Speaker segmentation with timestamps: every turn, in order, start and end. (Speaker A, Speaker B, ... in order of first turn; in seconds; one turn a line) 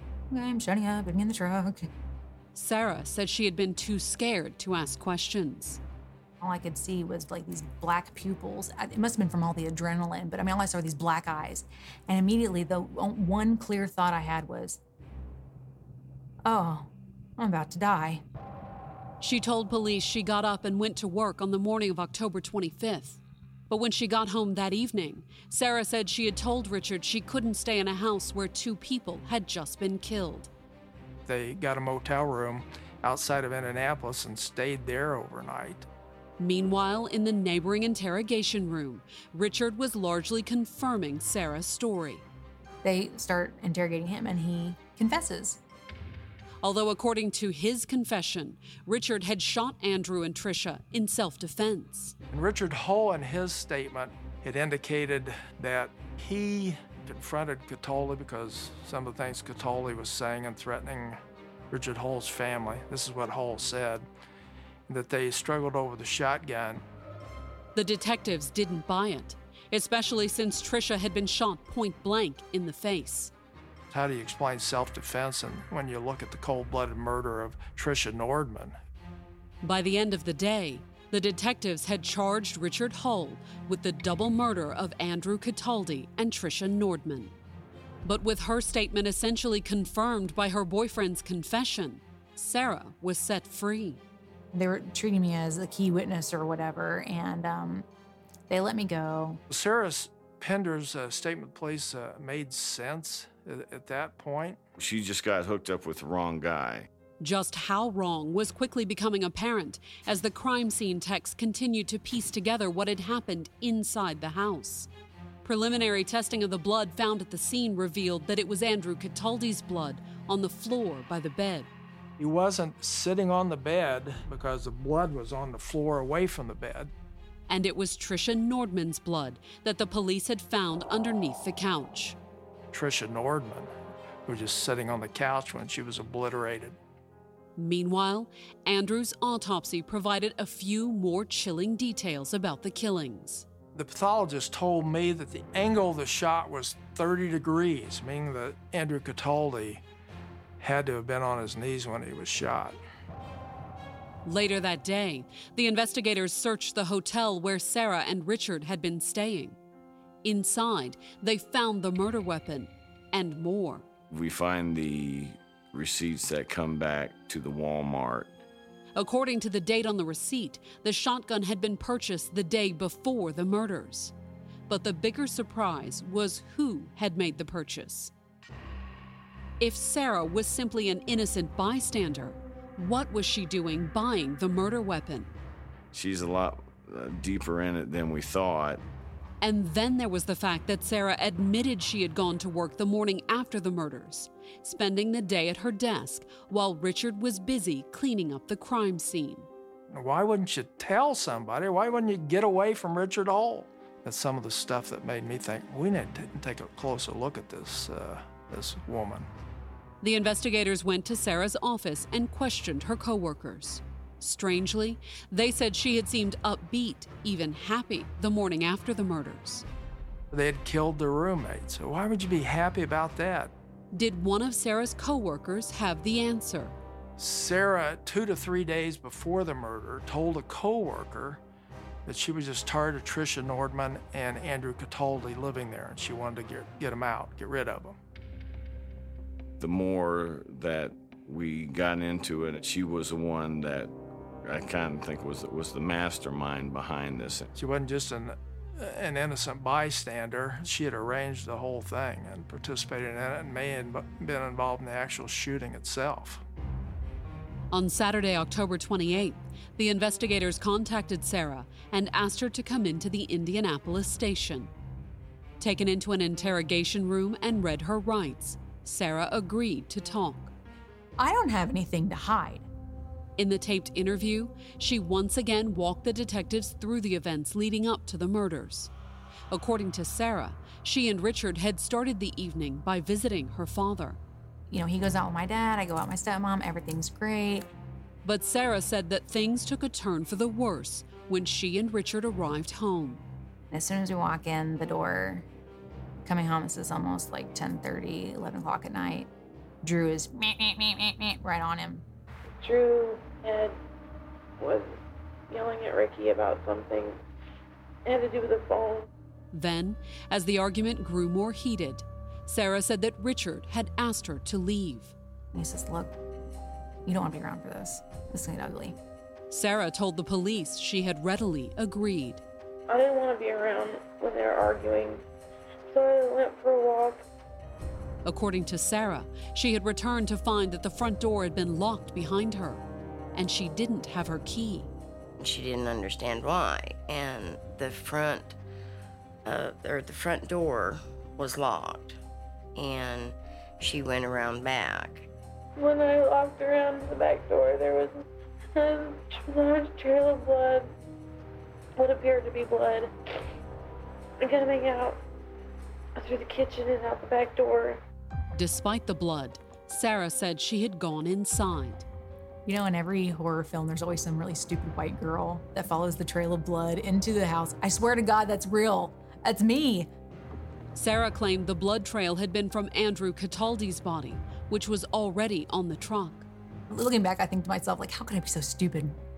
Speaker A: 0.3-1.9
Speaker B: 2.5-5.8
Speaker A: 6.4-14.8
Speaker A: 16.4-18.2
Speaker B: 19.2-30.5
Speaker C: 31.3-35.9
Speaker B: 36.4-42.2
Speaker A: 42.8-45.6
Speaker B: 46.6-52.1
Speaker C: 52.3-61.2
Speaker C: 61.7-64.1
Speaker C: 64.9-66.8
Speaker B: 67.8-73.3
Speaker C: 73.9-78.8
Speaker B: 79.6-87.3
Speaker B: 88.0-94.0
Speaker A: 94.5-97.9
Speaker A: 98.5-99.4
Speaker C: 99.5-104.6
Speaker D: 104.8-106.9
Speaker B: 107.2-114.9
Speaker B: 115.4-121.7
Speaker C: 122.2-126.9
Speaker B: 127.5-132.2
Speaker C: 132.7-133.7
Speaker C: 134.3-136.8
Speaker B: 137.6-143.5
Speaker C: 143.8-149.8
Speaker C: 150.6-152.8
Speaker B: 154.2-159.6
Speaker B: 160.2-163.9
Speaker D: 164.1-168.4
Speaker B: 169.0-174.1
Speaker B: 174.7-178.1
Speaker B: 179.6-185.3
Speaker D: 185.9-188.8
Speaker B: 189.4-199.5
Speaker C: 199.9-209.3
Speaker B: 210.0-219.7
Speaker C: 220.3-223.5
Speaker B: 223.9-226.8
Speaker C: 227.2-231.4
Speaker C: 232.1-238.0
Speaker D: 239.6-243.9
Speaker D: 244.4-247.5
Speaker C: 247.6-256.4
Speaker B: 257.7-264.7
Speaker B: 265.6-270.5
Speaker A: 271.2-272.7
Speaker B: 273.4-278.9
Speaker B: 279.5-284.2
Speaker A: 284.7-287.7
Speaker B: 288.2-293.2
Speaker A: 293.7-295.5
Speaker A: 296.2-299.3
Speaker A: 299.8-302.1
Speaker E: 302.6-303.8
Speaker E: 304.6-305.0
Speaker E: 305.5-307.2
Speaker E: 308.1-309.1
Speaker B: 309.5-315.1
Speaker A: 315.5-316.1
Speaker A: 317.1-319.0
Speaker B: 319.5-322.4
Speaker E: 322.9-325.2
Speaker E: 325.9-327.2
Speaker B: 328.2-332.8
Speaker B: 333.3-334.9
Speaker F: 335.4-338.6
Speaker F: 339.4-342.2
Speaker F: 342.8-345.3
Speaker E: 345.8-350.9
Speaker E: 352.0-353.1
Speaker E: 354.4-355.2
Speaker E: 356.2-358.0
Speaker B: 358.5-362.1
Speaker A: 362.7-370.1
Speaker B: 370.9-376.5
Speaker A: 376.9-379.2